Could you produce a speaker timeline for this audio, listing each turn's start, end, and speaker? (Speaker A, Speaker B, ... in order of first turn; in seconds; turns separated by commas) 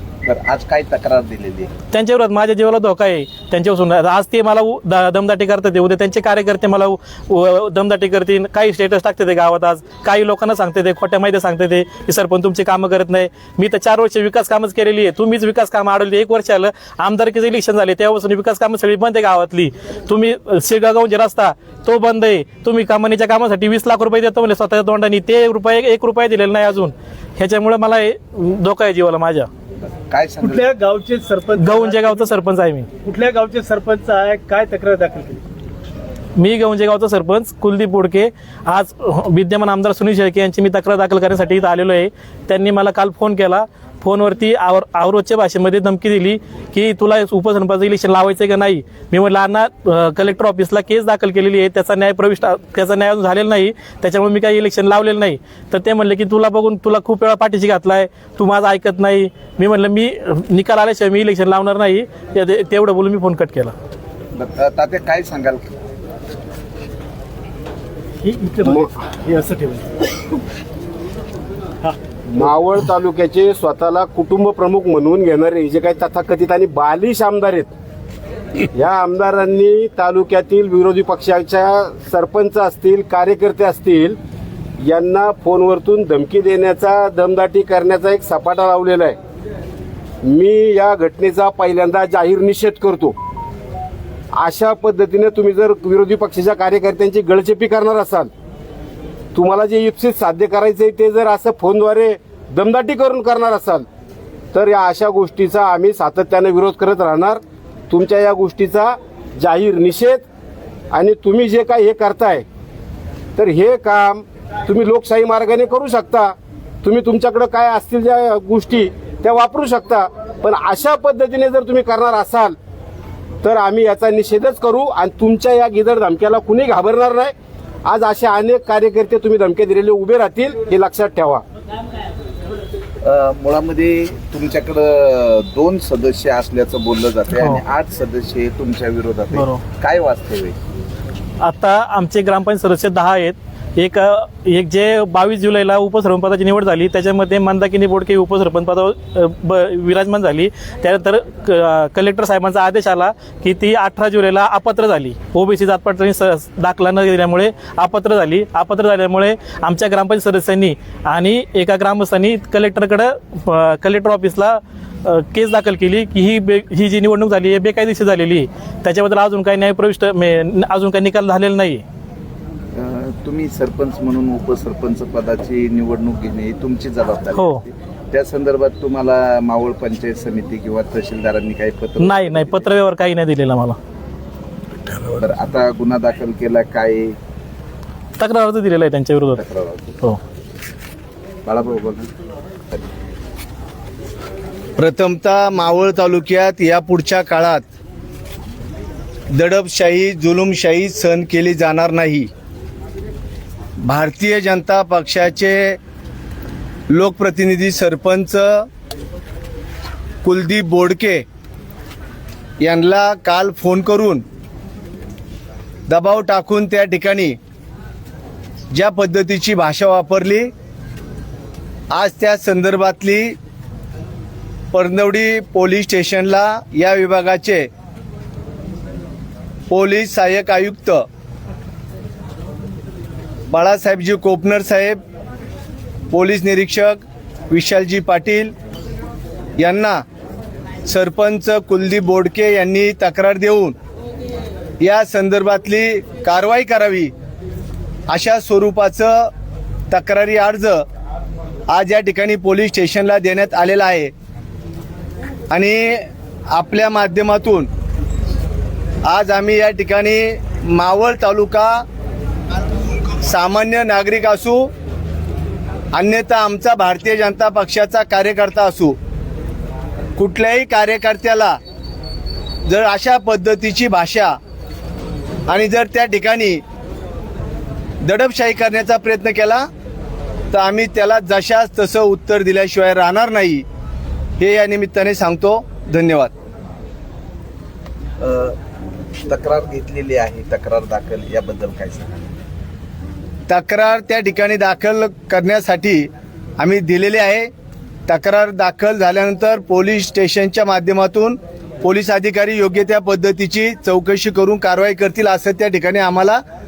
Speaker A: 0.3-1.7, Speaker B: 1.9-29.5, Speaker A: 30.1-30.7, Speaker C: 30.4-32.1, Speaker B: 31.5-32.9, Speaker C: 33.0-35.4, Speaker B: 36.4-63.7, Speaker A: 64.3-65.7, Speaker C: 68.2-70.1, Speaker D: 72.3-77.7, Speaker D: 78.7-84.2, Speaker D: 84.8-89.2, Speaker D: 90.2-93.2, Speaker D: 94.3-98.3, Speaker D: 99.3-103.9, Speaker D: 104.5-110.2, Speaker D: 110.9-112.5, Speaker D: 113.4-122.6, Speaker D: 123.4-127.3, Speaker D: 127.8-131.4, Speaker A: 133.0-140.6, Speaker B: 137.3-137.6, Speaker B: 139.3-139.6, Speaker B: 141.4-171.8, Speaker A: 172.8-182.7, Speaker B: 177.3-177.6, Speaker B: 182.0-183.8, Speaker A: 185.1-187.2, Speaker B: 188.2-189.4, Speaker A: 189.4-190.0, Speaker A: 191.5-192.1, Speaker E: 194.8-197.7, Speaker E: 199.3-202.3, Speaker E: 203.8-205.8, Speaker E: 206.9-208.7, Speaker E: 210.2-211.2, Speaker E: 212.7-214.2, Speaker E: 215.9-217.4, Speaker E: 218.7-220.5, Speaker E: 221.9-223.3, Speaker E: 224.7-227.7, Speaker E: 229.7-231.1, Speaker E: 233.5-235.0, Speaker E: 236.1-238.5, Speaker E: 239.6-240.0, Speaker E: 240.9-243.8, Speaker E: 244.8-247.1, Speaker E: 248.1-249.3, Speaker E: 249.9-250.8, Speaker E: 251.7-254.1, Speaker E: 255.5-257.7, Speaker E: 259.1-261.9, Speaker E: 263.2-264.7, Speaker E: 265.9-269.0, Speaker E: 270.2-271.6, Speaker E: 272.7-274.4, Speaker E: 275.5-276.6, Speaker E: 278.0-279.7, Speaker E: 280.5-283.6, Speaker E: 284.4-286.3, Speaker A: 288.2-288.6, Speaker A: 289.3-292.3, Speaker E: 293.5-297.5, Speaker E: 298.1-306.4